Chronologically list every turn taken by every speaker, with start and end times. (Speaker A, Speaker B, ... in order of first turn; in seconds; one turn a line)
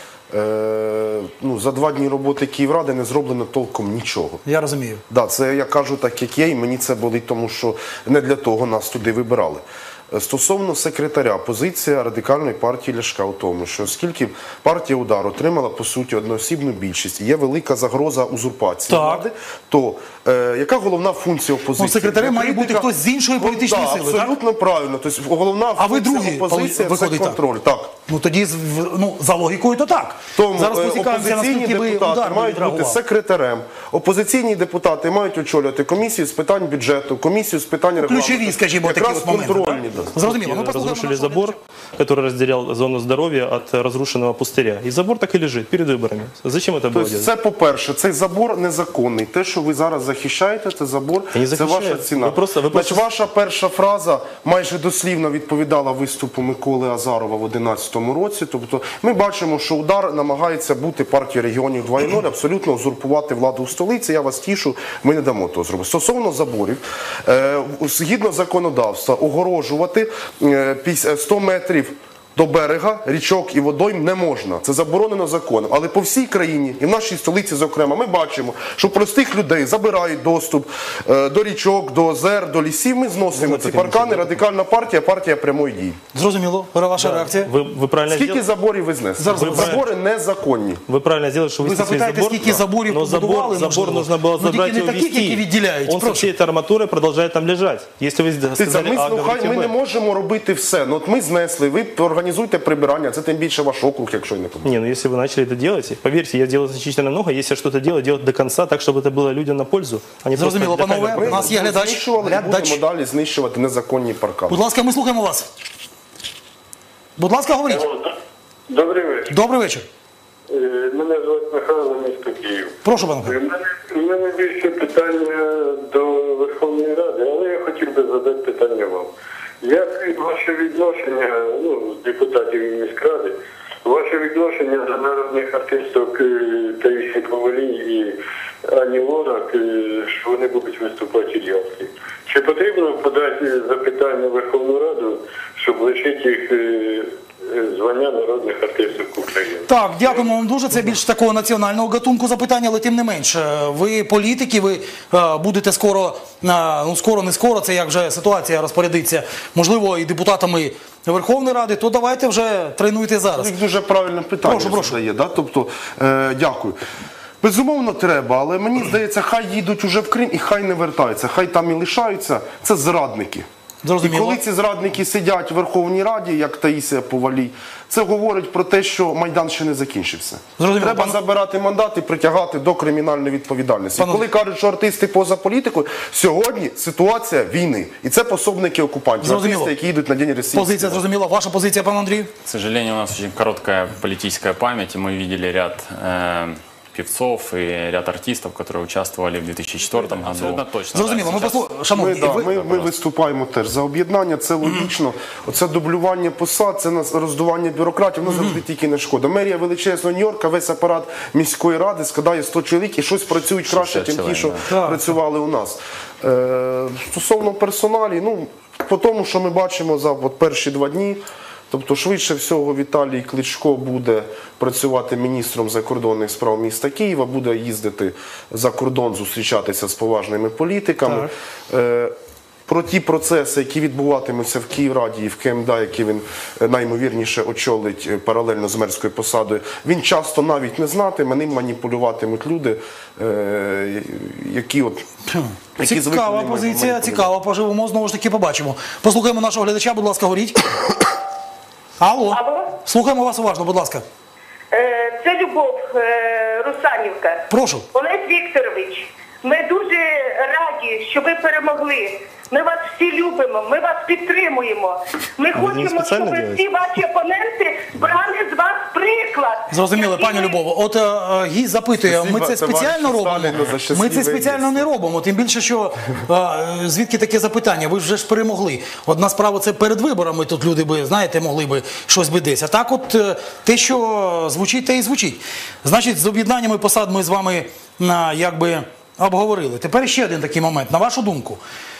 Speaker A: 0.3-4.4
Speaker B: 4.4-5.0
Speaker A: 5.1-27.9
Speaker B: 18.9-19.2
Speaker B: 21.8-24.3
Speaker B: 25.8-27.4
Speaker B: 28.1-33.0
Speaker A: 30.4-40.1
Speaker B: 38.0-41.5
Speaker C: 40.2-47.3
Speaker A: 46.9-86.0
Speaker C: 51.3-53.0
Speaker C: 83.3-84.4
Speaker B: 86.1-87.5
Speaker C: 87.0-88.4
Speaker A: 88.1-90.8
Speaker B: 89.2-89.8
Speaker C: 89.3-89.8
Speaker C: 90.9-99.7
Speaker B: 91.6-96.3
Speaker A: 98.5-104.8
Speaker C: 104.6-111.5
Speaker B: 110.3-112.8
Speaker A: 111.1-114.6
Speaker B: 114.5-115.5
Speaker B: 117.2-117.9
Speaker D: 117.7-118.1
Speaker D: 118.7-119.3
Speaker B: 119.3-119.8
Speaker D: 120.5-129.1
Speaker B: 122.8-123.3
Speaker D: 129.6-138.2
Speaker D: 138.7-150.2
Speaker B: 149.7-163.5
Speaker A: 163.3-166.8
Speaker B: 164.4-165.0
Speaker A: 167.4-173.5
Speaker B: 173.8-174.4
Speaker A: 174.0-191.0
Speaker B: 180.6-181.2
Speaker B: 184.0-184.2
Speaker B: 189.2-189.7
Speaker B: 190.5-192.3
Speaker E: 192.4-201.7
Speaker B: 200.5-202.5
Speaker A: 201.9-232.1
Speaker E: 202.3-202.9
Speaker B: 208.3-208.6
Speaker E: 213.7-214.6
Speaker B: 214.7-215.0
Speaker A: 232.7-245.1
Speaker B: 245.3-250.6
Speaker A: 245.8-247.3
Speaker B: 252.0-254.0
Speaker F: 252.3-252.7
Speaker F: 254.7-270.6
Speaker B: 257.5-257.8
Speaker C: 265.5-266.6
Speaker B: 269.7-291.6
Speaker A: 272.0-274.9